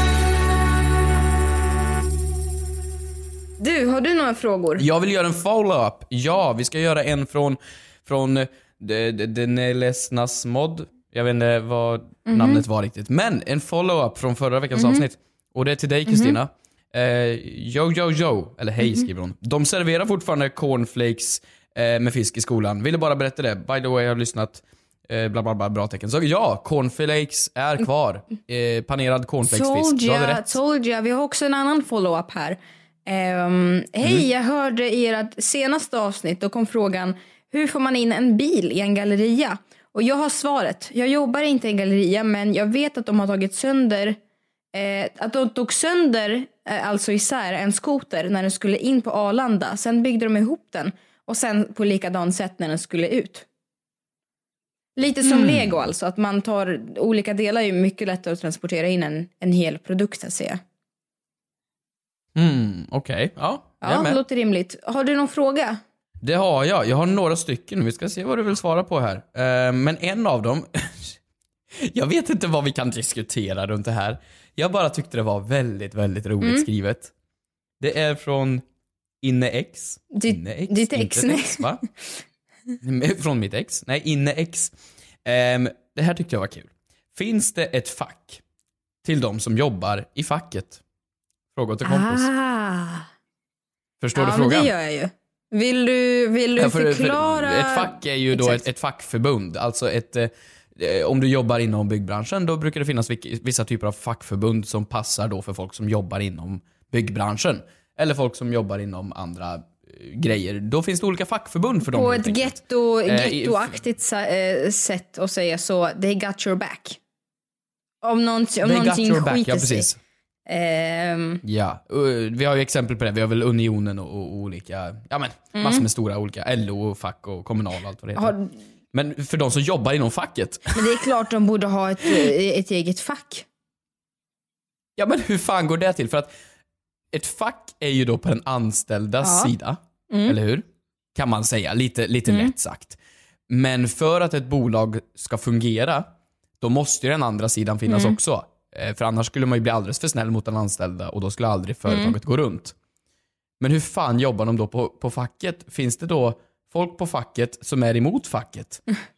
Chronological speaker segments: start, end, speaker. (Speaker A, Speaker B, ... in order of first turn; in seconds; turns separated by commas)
Speaker A: 3.6-4.8, Speaker B: 4.8-30.6, Speaker A: 12.3-12.6, Speaker A: 14.8-15.0, Speaker A: 16.1-16.4, Speaker A: 29.4-44.2, Speaker A: 44.7-53.5, Speaker A: 55.0-60.6, Speaker B: 55.2-55.7, Speaker B: 62.4-64.2, Speaker A: 63.8-65.8, Speaker B: 66.2-71.2, Speaker B: 71.8-77.1, Speaker B: 77.8-78.6, Speaker B: 79.2-81.8, Speaker A: 80.1-81.6, Speaker B: 82.8-88.4, Speaker B: 89.0-90.8, Speaker B: 91.5-92.3, Speaker A: 91.8-93.1, Speaker B: 94.0-94.7, Speaker A: 94.2-98.6, Speaker B: 96.6-113.8, Speaker A: 111.9-117.0, Speaker A: 118.0-119.9, Speaker B: 118.6-120.0, Speaker A: 120.5-121.4, Speaker B: 121.4-128.4, Speaker A: 125.6-125.8, Speaker A: 128.2-128.5, Speaker B: 128.9-130.8, Speaker A: 130.7-133.5, Speaker B: 135.0-136.3, Speaker B: 137.1-152.8, Speaker A: 139.2-139.5, Speaker A: 140.1-140.4, Speaker A: 142.3-142.5, Speaker A: 147.9-148.2, Speaker A: 151.9-152.2, Speaker B: 153.6-158.8